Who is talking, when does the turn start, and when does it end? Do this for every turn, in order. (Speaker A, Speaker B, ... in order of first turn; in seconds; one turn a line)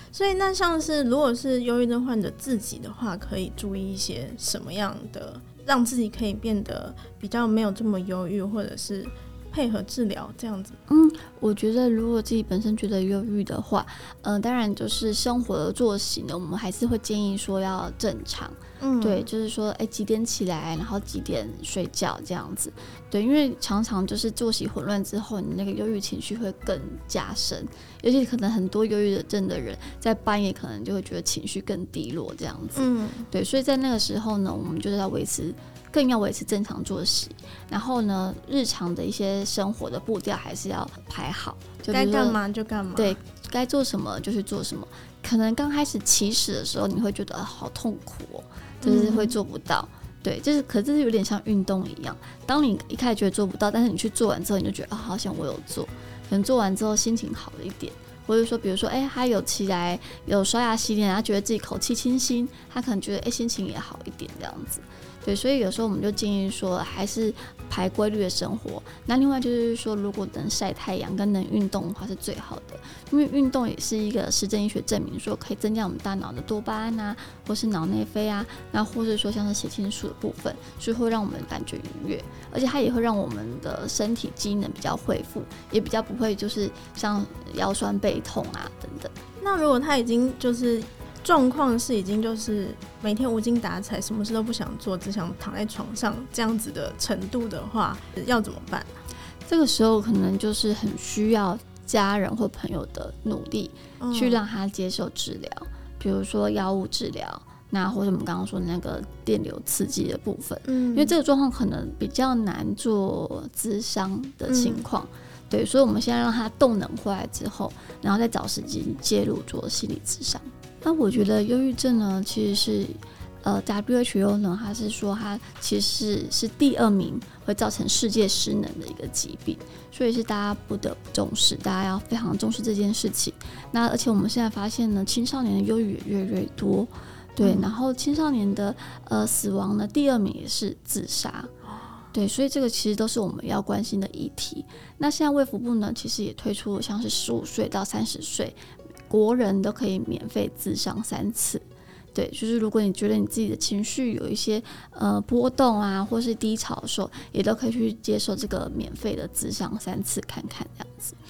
Speaker A: 0.1-10.8
Speaker B: 10.9-42.4
Speaker A: 18.8-19.3
Speaker A: 32.8-33.3
Speaker A: 41.9-43.2
Speaker B: 42.9-89.1
Speaker A: 48.8-49.3
Speaker A: 89.4-98.9
Speaker B: 99.5-141.5
Speaker A: 104.0-104.4
Speaker A: 110.7-111.2
Speaker A: 114.5-114.8
Speaker A: 137.4-137.7
Speaker A: 141.6-142.0
Speaker B: 142.1-148.6
Speaker B: 149.1-161.2